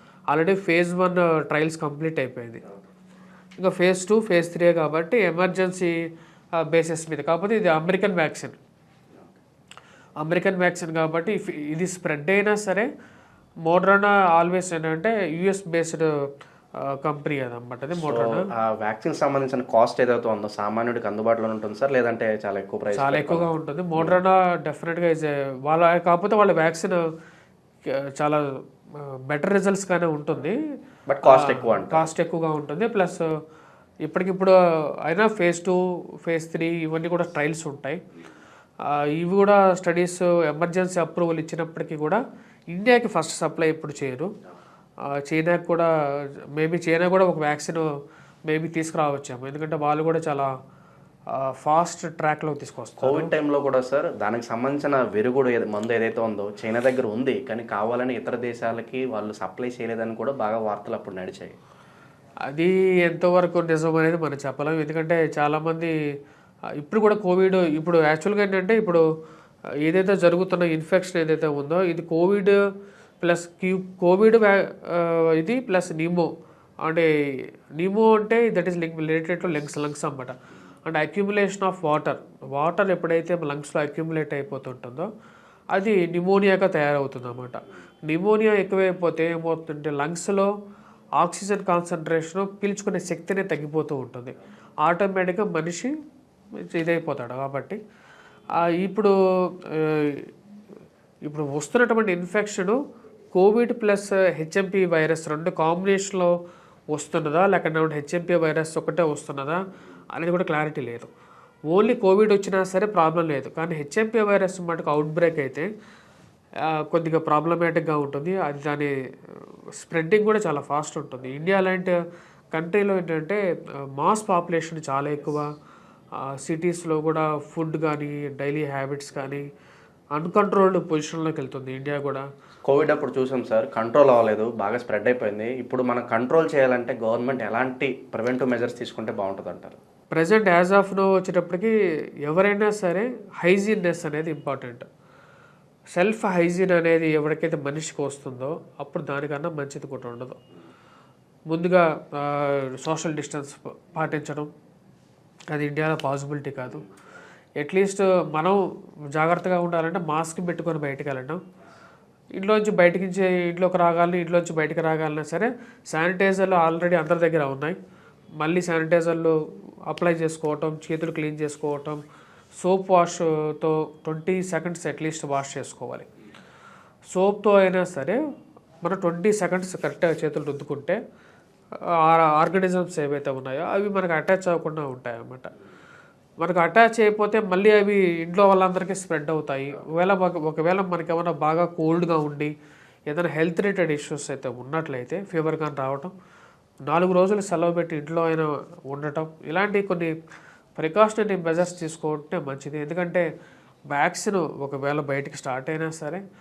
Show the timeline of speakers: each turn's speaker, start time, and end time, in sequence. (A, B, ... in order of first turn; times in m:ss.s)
0:00.3-0:02.6 A
0:03.6-0:05.9 A
0:06.6-0:08.6 A
0:10.2-0:12.9 A
0:13.7-0:16.1 A
0:16.8-0:18.5 A
0:18.0-0:24.2 B
0:22.9-0:27.0 A
0:28.0-0:28.4 A
0:29.0-0:30.6 A
0:31.1-0:32.1 B
0:31.2-0:33.2 A
0:34.0-0:34.5 A
0:35.0-0:38.0 A
0:38.9-0:44.3 A
0:45.1-0:45.9 A
0:46.6-0:47.8 A
0:48.5-0:50.5 A
0:51.4-0:53.3 A
0:53.0-1:01.5 B
1:02.5-1:05.9 A
1:06.8-1:09.0 A
1:09.8-1:12.6 A
1:13.2-1:16.3 A
1:17.8-1:25.1 A
1:25.7-1:30.5 A
1:31.2-1:35.9 A
1:36.7-1:37.8 A
1:38.6-1:39.1 A
1:39.7-1:40.3 A
1:41.2-1:42.8 A
1:43.3-1:46.3 A
1:46.9-1:49.6 A
1:50.1-1:51.1 A
1:51.7-1:55.7 A
1:56.7-1:58.9 A
1:59.8-2:02.0 A
2:02.5-2:03.4 A
2:04.0-2:05.4 A
2:06.2-2:09.5 A
2:10.2-2:12.2 A
2:12.6-2:19.8 B
2:20.1-2:21.7 A
2:22.2-2:24.8 A
2:26.0-2:30.4 A
2:31.5-2:34.5 A
2:35.5-2:36.8 A
2:37.6-2:38.6 A
2:39.1-2:41.4 A
2:42.4-2:47.8 A
2:48.4-2:49.4 A
2:49.9-2:52.0 A
2:52.6-2:56.0 A
2:57.1-2:58.2 A
2:58.8-3:01.0 A
3:02.0-3:05.5 A
3:06.4-3:12.5 A
3:13.1-3:16.1 A
3:16.9-3:20.1 A
3:20.8-3:23.2 A
3:23.9-3:26.2 A